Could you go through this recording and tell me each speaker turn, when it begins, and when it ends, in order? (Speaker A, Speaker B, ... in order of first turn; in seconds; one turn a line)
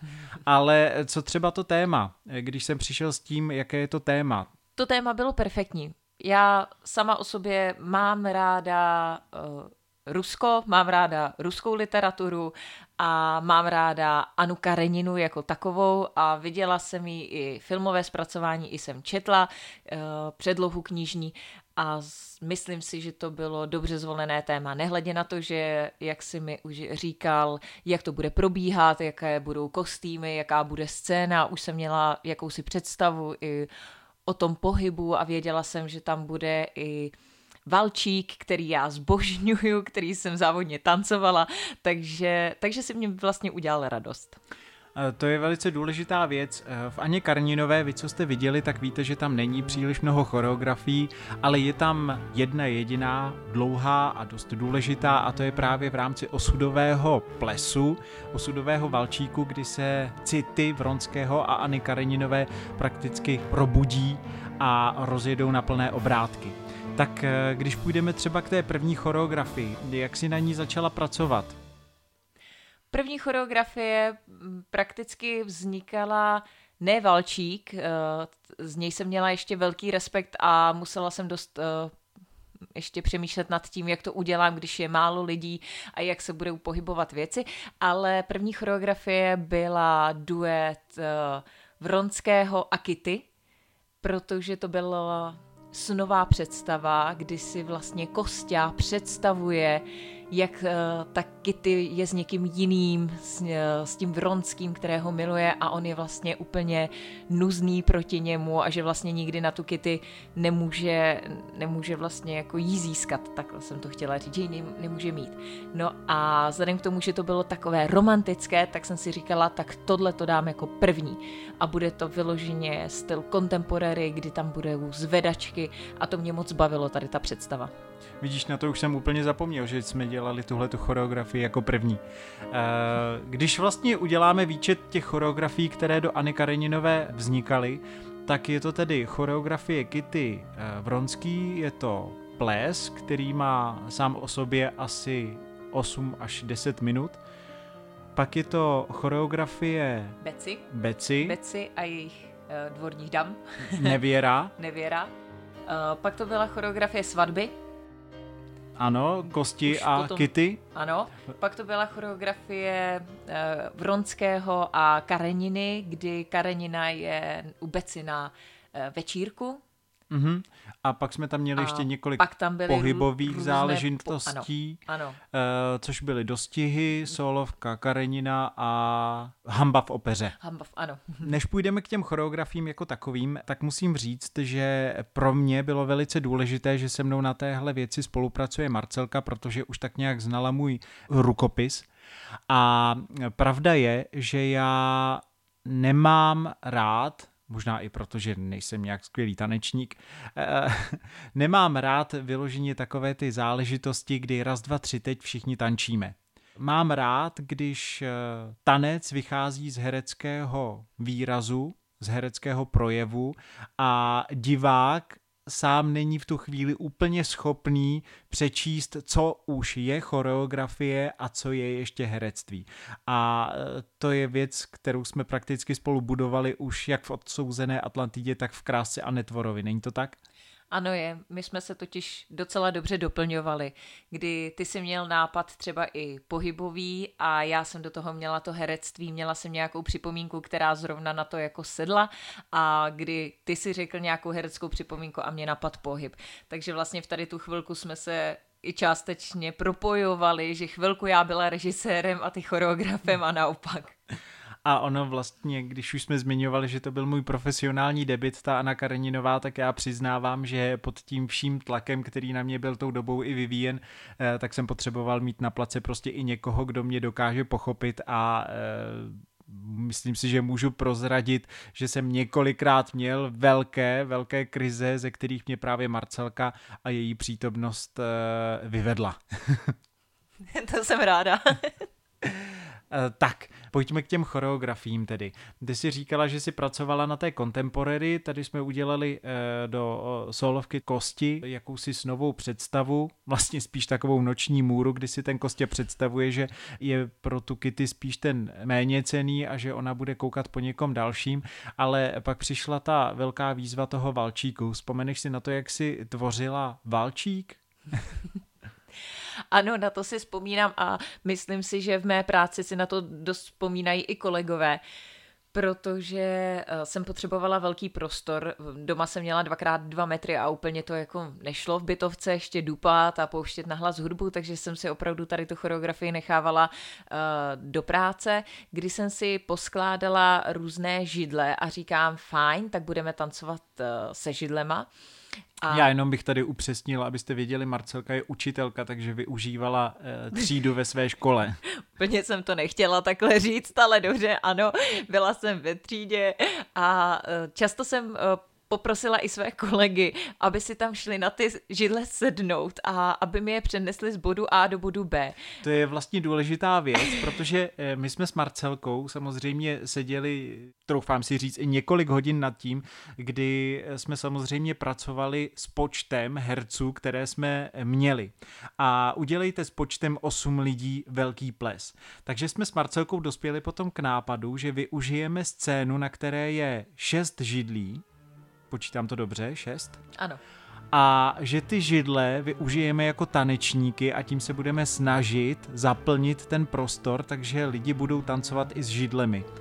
Speaker A: 0.4-4.5
Speaker B: 4.8-33.7
Speaker B: 34.3-37.1
Speaker B: 37.7-44.4
Speaker A: 44.9-71.6
Speaker B: 72.9-81.9
Speaker B: 82.7-93.3
Speaker B: 94.0-127.7
Speaker A: 128.2-147.2
Speaker A: 148.2-151.4
Speaker B: 150.2-150.7
Speaker B: 151.2-154.0
Speaker A: 153.7-154.5
Speaker B: 154.6-155.1
Speaker B: 155.7-157.5
Speaker A: 158.8-160.6
Speaker B: 159.7-169.6
Speaker A: 170.1-180.3
Speaker B: 171.6-175.2
Speaker B: 180.4-181.3
Speaker A: 181.2-191.9
Speaker A: 192.5-230.2
Speaker B: 230.7-253.9
Speaker A: 254.6-279.7
Speaker B: 280.5-281.9
Speaker A: 282.3-308.0
Speaker B: 309.5-314.8
Speaker B: 315.5-334.9
Speaker B: 335.6-335.9
Speaker A: 335.7-341.6
Speaker B: 341.9-355.4
Speaker A: 355.6-378.0
Speaker A: 378.7-380.0
Speaker A: 380.9-389.4